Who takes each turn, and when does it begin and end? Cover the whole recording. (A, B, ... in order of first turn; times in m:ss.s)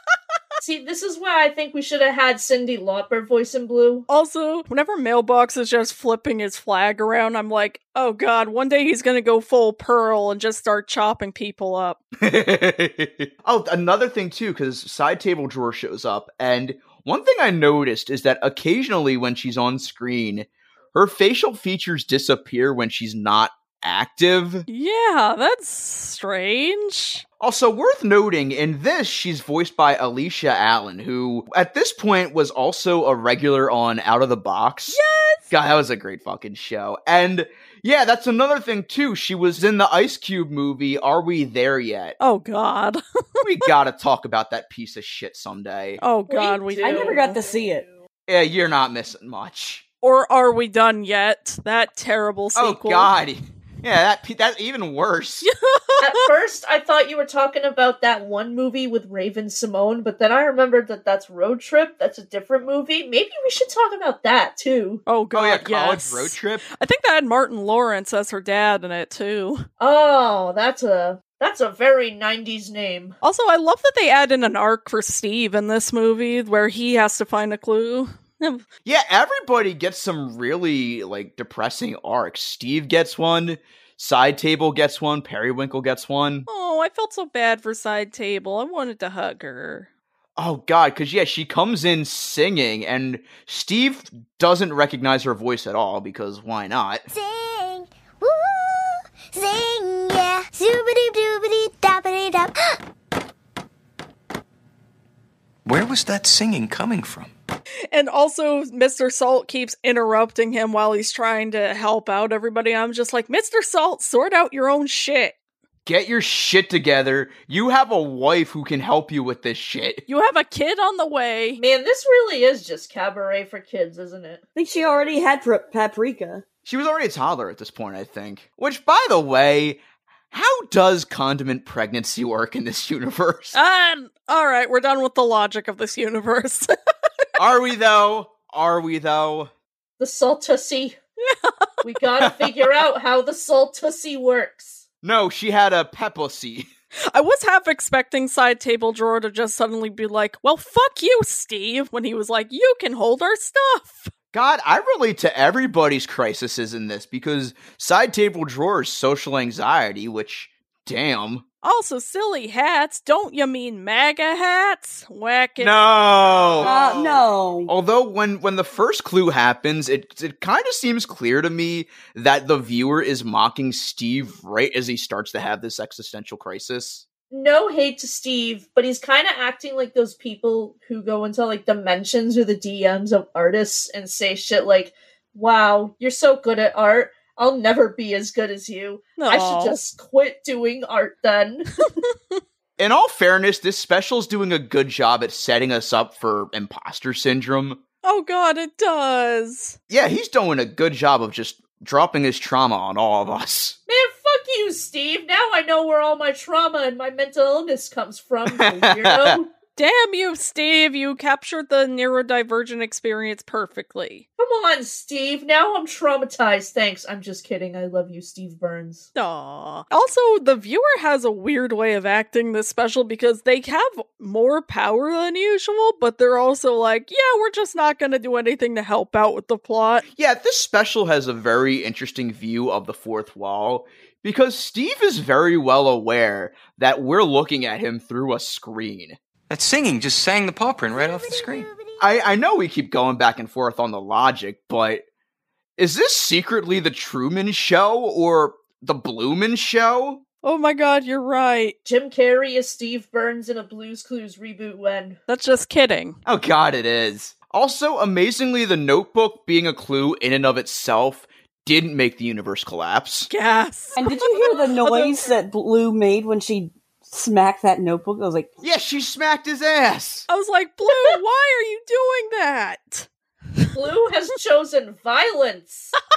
0:00.6-0:04.0 A
0:04.1-0:12.0 B
0:12.2-0:24.6 C
0:24.7-0:27.2 B
0:27.4-0:35.0 C
0:34.9-0:35.5 B
0:35.5-0:42.2 C
0:42.2-0:43.6 B
0:43.4-0:46.0 C
0:46.0-0:47.4 B
0:46.3-0:47.8 A
0:46.8-0:47.8 D
0:48.3-0:49.8 C
0:50.0-0:53.1 B
0:52.6-0:55.5 C
0:55.4-0:56.3 B
0:56.0-1:05.0 A
1:05.1-1:09.7 B
1:05.3-1:06.6 C
1:09.8-1:13.2 A
1:13.2-1:18.6 B
1:18.8-1:26.5 C
1:26.5-1:29.9 B
1:30.4-1:37.1 C
1:37.1-1:42.8 E
1:45.6-1:47.3 F
1:47.9-1:55.3 B
1:55.8-2:00.0 C
2:00.1-2:01.6 B
2:01.6-2:04.4 A
2:04.6-2:06.4 D
2:06.6-2:13.6 C
2:13.5-2:16.7 B
2:17.4-2:19.5 C
2:20.0-2:21.0 A
2:21.8-2:24.8 A
2:25.0-2:26.7 C
2:27.1-2:34.1 B
2:34.3-2:41.4 C
2:41.6-2:46.8 B
2:45.6-2:57.0 C
2:46.6-2:47.7 D
2:57.3-3:11.9 A
3:09.2-3:09.8 B
3:12.8-3:17.8 C
3:18.0-3:19.8 B
3:19.9-3:23.8 C
3:23.9-3:29.5 A
3:28.4-3:29.4 C
3:29.8-3:34.2 B
3:34.4-3:39.1 A
3:39.1-3:50.0 B
3:50.2-3:59.2 C
3:59.5-4:01.7 F
4:00.9-4:02.0 E
4:02.0-4:05.0 C
4:05.8-4:10.2 C
4:10.4-4:11.8 B
4:11.8-4:15.2 A
4:15.3-4:16.2 B
4:16.2-4:23.3 C
4:23.3-4:25.3 B
4:24.0-4:28.5 D
4:28.6-4:30.3 C
4:30.3-4:33.6 B
4:33.7-4:35.9 A